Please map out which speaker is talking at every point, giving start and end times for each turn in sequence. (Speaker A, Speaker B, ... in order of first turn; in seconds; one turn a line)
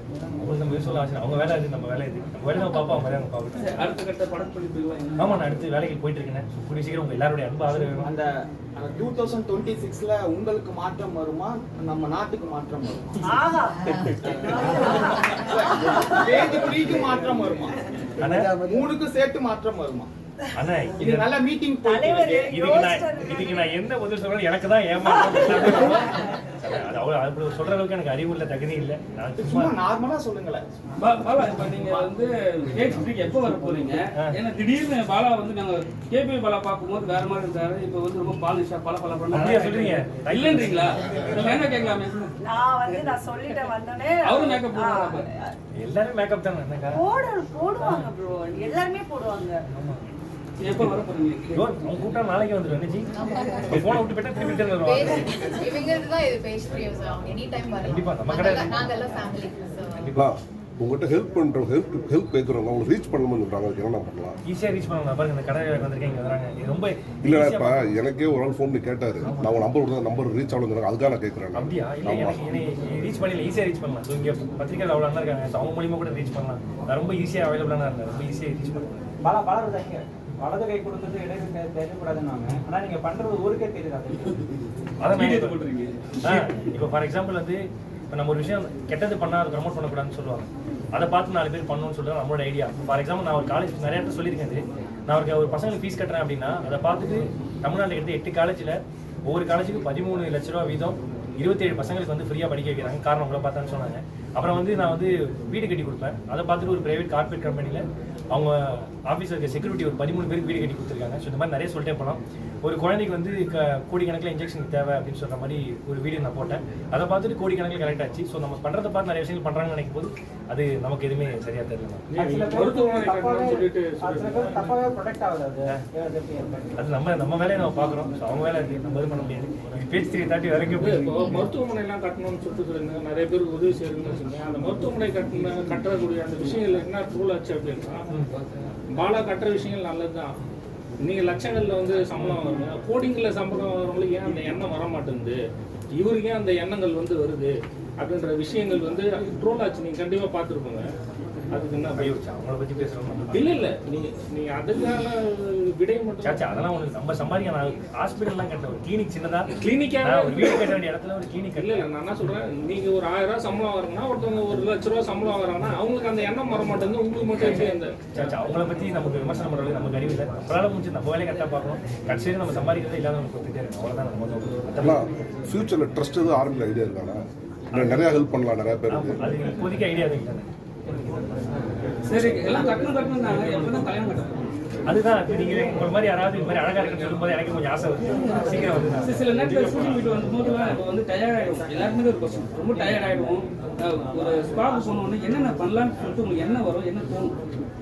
Speaker A: 0.4-3.9
Speaker B: 3.6-5.5
Speaker A: 5.2-8.1
Speaker C: 7.9-13.2
Speaker D: 13.2-13.9
Speaker C: 14.0-17.8
Speaker D: 14.4-15.3
Speaker A: 18.2-18.6
Speaker C: 18.6-20.1
Speaker A: 20.5-21.3
Speaker C: 20.9-22.5
Speaker D: 21.8-23.7
Speaker A: 22.5-29.8
Speaker D: 25.3-26.1
Speaker C: 29.4-30.6
Speaker B: 31.0-42.3
Speaker A: 39.3-41.8
Speaker D: 42.4-45.5
Speaker B: 42.9-43.6
Speaker B: 44.2-45.3
Speaker A: 45.8-47.0
Speaker D: 46.9-49.6
Speaker A: 47.8-48.1
Speaker A: 49.7-50.1
Speaker B: 50.6-51.7
Speaker A: 51.5-53.1
Speaker E: 53.2-53.8
Speaker A: 53.7-55.4
Speaker E: 54.6-60.0
Speaker A: 57.8-59.2
Speaker A: 60.0-60.3
Speaker F: 60.2-64.4
Speaker A: 64.5-68.0
Speaker F: 67.2-72.5
Speaker A: 69.2-69.6
Speaker A: 71.5-79.0
Speaker G: 79.2-84.4
Speaker A: 85.0-85.6
Speaker B: 85.1-86.5
Speaker A: 86.2-122.3
Speaker H: 122.1-124.8
Speaker G: 122.3-126.7
Speaker A: 126.8-131.4
Speaker H: 130.8-138.1
Speaker H: 138.9-140.3
Speaker H: 141.0-145.4
Speaker H: 145.9-150.9
Speaker H: 151.5-152.2
Speaker A: 151.9-153.6
Speaker H: 153.3-156.6
Speaker A: 156.2-162.3
Speaker H: 159.5-160.8
Speaker H: 161.6-168.0
Speaker A: 167.4-175.1
Speaker F: 174.8-177.2
Speaker F: 177.7-179.2
Speaker A: 177.7-178.1
Speaker A: 178.9-180.5
Speaker B: 182.1-184.4
Speaker A: 184.9-189.9
Speaker B: 188.2-197.4